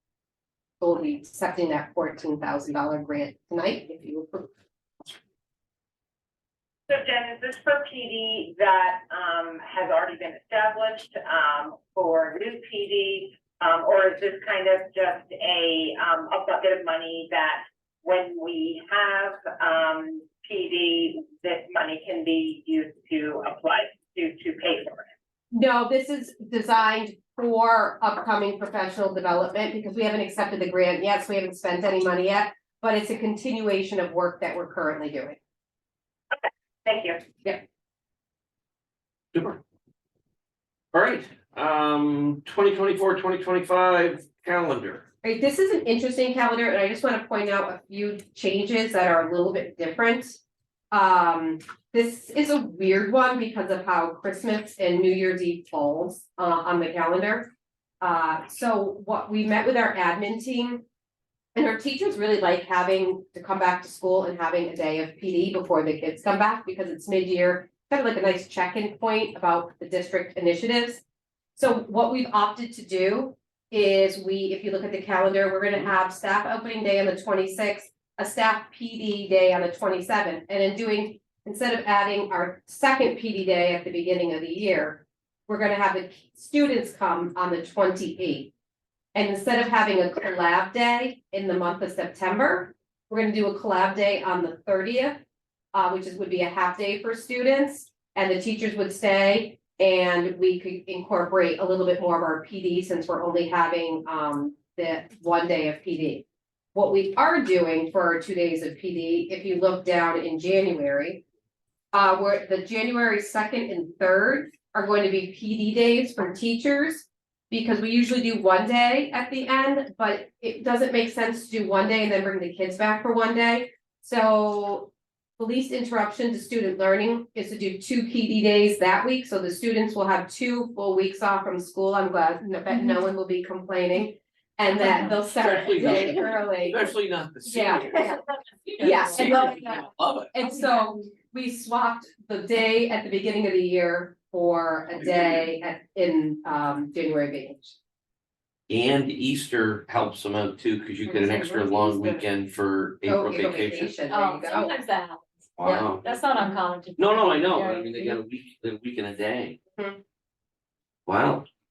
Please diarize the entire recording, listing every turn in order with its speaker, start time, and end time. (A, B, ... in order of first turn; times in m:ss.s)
0:00.8-0:04.5 A
0:06.9-0:25.1 B
0:25.5-0:35.4 A
0:36.3-0:37.2 B
0:39.3-0:39.6 C
0:40.9-0:45.0 C
0:45.2-0:50.4 A
0:50.9-0:57.5 A
0:58.0-1:00.8 A
1:01.6-1:11.0 A
1:11.6-1:28.5 A
1:29.1-1:35.2 A
1:35.7-1:51.2 A
1:51.9-2:16.9 A
2:12.7-2:13.0 D
2:14.7-2:15.2 D
2:15.3-2:18.2 C
2:17.5-2:18.2 A
2:17.6-2:19.8 D
2:18.8-2:19.8 A
2:18.8-2:20.3 C
2:20.3-2:27.8 A
2:20.4-2:20.8 D
2:28.7-2:33.9 C
2:31.0-2:32.3 A
2:33.0-2:34.8 A
2:34.1-2:38.2 D
2:35.6-2:36.1 C
2:35.6-2:35.9 A
2:37.0-2:39.6 C
2:41.1-2:41.5 C